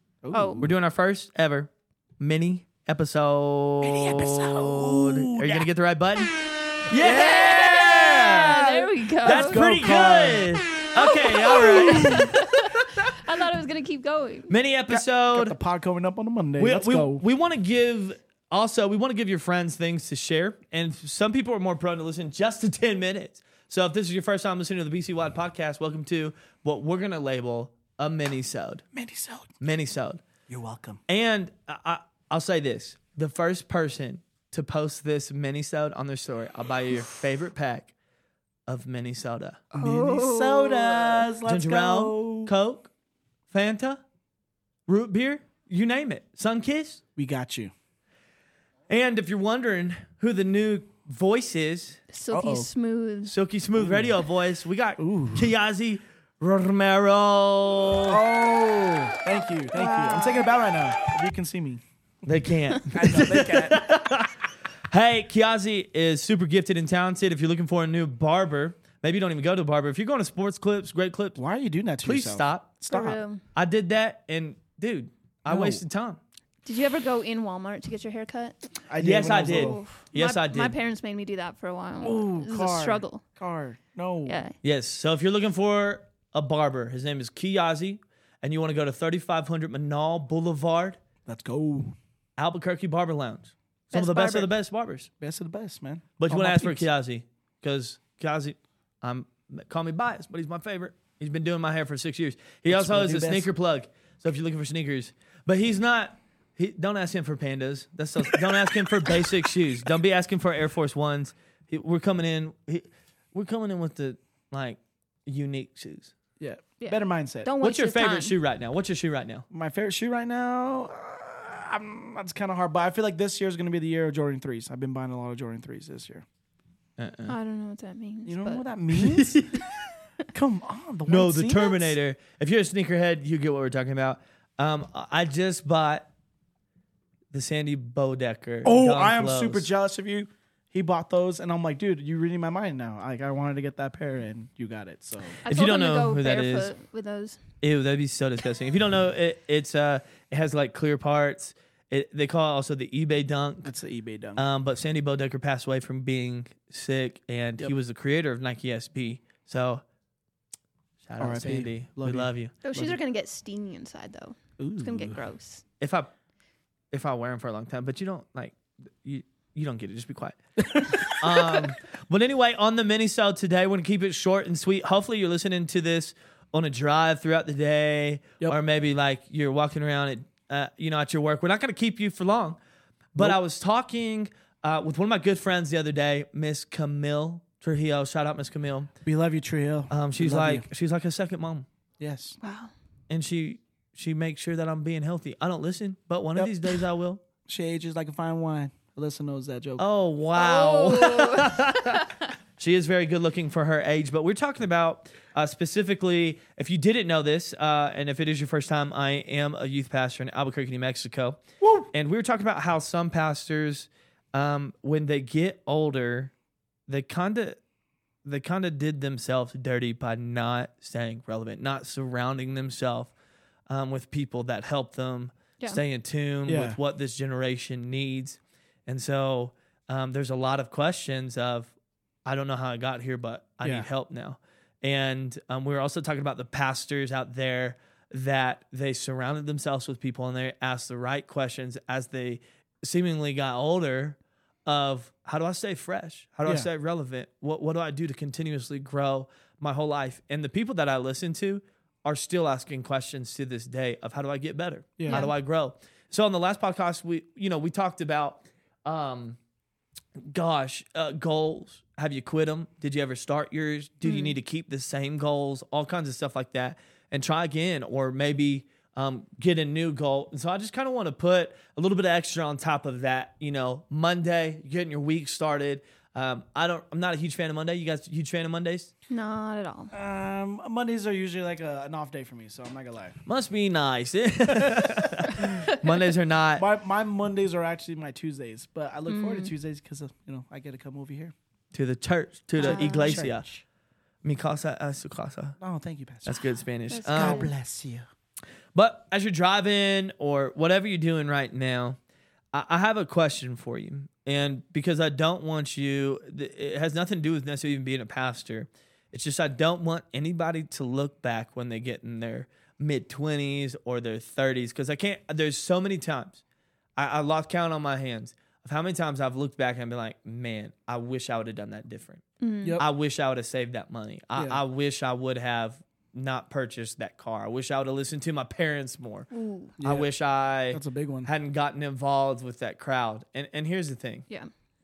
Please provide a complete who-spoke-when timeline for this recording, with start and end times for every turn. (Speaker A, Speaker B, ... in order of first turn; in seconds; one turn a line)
Speaker A: 0.2-0.7
Speaker B: 0.3-0.7
Speaker C: 0.6-8.6
Speaker A: 3.8-5.7
Speaker B: 7.0-9.6
Speaker A: 7.0-7.3
Speaker A: 8.3-10.5
Speaker C: 9.2-12.3
Speaker B: 11.0-14.5
Speaker A: 11.4-12.3
Speaker C: 14.5-15.6
Speaker A: 14.9-17.2
Speaker C: 16.6-28.8
Speaker A: 28.9-29.5
Speaker C: 29.6-30.2
Speaker A: 30.5-31.0
Speaker C: 31.1-37.9
Speaker C: 38.7-39.6
Speaker A: 39.7-42.5
Speaker B: 39.8-41.2
Speaker C: 41.4-42.9
Speaker C: 43.5-44.0
Speaker C: 44.9-47.0
Speaker A: 47.1-47.7
Speaker C: 48.9-52.0
Speaker B: 52.1-53.3
Speaker A: 52.3-52.7
Speaker C: 53.3-58.2
Speaker A: 53.8-54.1
Speaker A: 55.0-55.5
Speaker A: 58.1-61.8
Speaker B: 59.8-60.5
Speaker C: 62.2-64.3
Speaker A: 62.9-63.8
Speaker C: 64.9-71.4
Speaker A: 71.3-73.2
Speaker C: 72.0-72.8
Speaker B: 72.9-73.4
Speaker C: 73.5-76.2
Speaker A: 75.5-75.8
Speaker B: 76.6-78.5
Speaker A: 78.9-79.8
Speaker C: 79.0-80.7
Speaker B: 79.4-83.2
Speaker A: 82.0-84.4
Speaker B: 84.2-84.5
Speaker C: 84.6-91.0
Speaker A: 91.2-92.0
Speaker C: 92.4-95.1
Speaker B: 93.9-94.5
Speaker A: 95.2-96.9
Speaker C: 96.2-116.1
Speaker A: 102.7-103.5
Speaker A: 116.4-117.5
Speaker B: 116.8-118.3
Speaker C: 117.6-119.4
Speaker A: 119.5-126.2
Speaker C: 127.0-127.3
Speaker B: 127.2-128.6
Speaker A: 128.2-129.4
Speaker C: 129.0-129.6
Speaker A: 130.3-132.0
Speaker C: 131.1-136.1
Speaker C: 137.3-139.7
Speaker A: 138.6-145.4
Speaker B: 145.4-147.4
Speaker C: 145.5-146.7
Speaker C: 147.6-153.7
Speaker A: 153.6-154.4
Speaker C: 154.4-159.8
Speaker C: 161.0-162.5
Speaker A: 161.2-163.0
Speaker B: 162.6-165.6
Speaker A: 164.6-165.2
Speaker C: 165.8-166.1
Speaker C: 166.9-170.4
Speaker A: 170.6-171.6
Speaker C: 171.0-182.6
Speaker C: 183.1-188.9
Speaker A: 189.0-190.7
Speaker C: 189.9-191.7
Speaker A: 192.0-192.4
Speaker B: 192.4-192.7
Speaker C: 193.1-197.2
Speaker A: 197.5-199.8
Speaker C: 199.8-211.4
Speaker B: 200.3-202.2
Speaker A: 211.6-211.9
Speaker C: 211.9-216.3
Speaker C: 216.9-217.6
Speaker C: 218.2-223.1
Speaker C: 223.7-231.7
Speaker A: 226.4-226.8
Speaker C: 232.2-259.4
Speaker A: 233.6-233.9
Speaker A: 255.0-255.2
Speaker B: 255.1-255.3
Speaker C: 260.3-278.9
Speaker B: 264.0-264.4
Speaker B: 279.1-279.9
Speaker A: 279.9-283.2
Speaker C: 283.2-286.6
Speaker A: 286.6-291.3
Speaker B: 289.1-289.5
Speaker C: 291.7-293.5
Speaker B: 292.6-293.2
Speaker A: 292.6-293.6
Speaker C: 294.2-295.5
Speaker A: 295.6-296.3
Speaker C: 296.2-297.5
Speaker B: 296.9-297.5
Speaker A: 297.1-298.1
Speaker C: 298.7-302.0
Speaker C: 302.5-316.4
Speaker C: 317.0-322.2
Speaker B: 322.4-322.8
Speaker C: 322.8-329.3
Speaker A: 324.4-324.6
Speaker B: 329.3-329.7
Speaker A: 329.8-330.1
Speaker C: 329.8-334.2
Speaker A: 330.7-331.3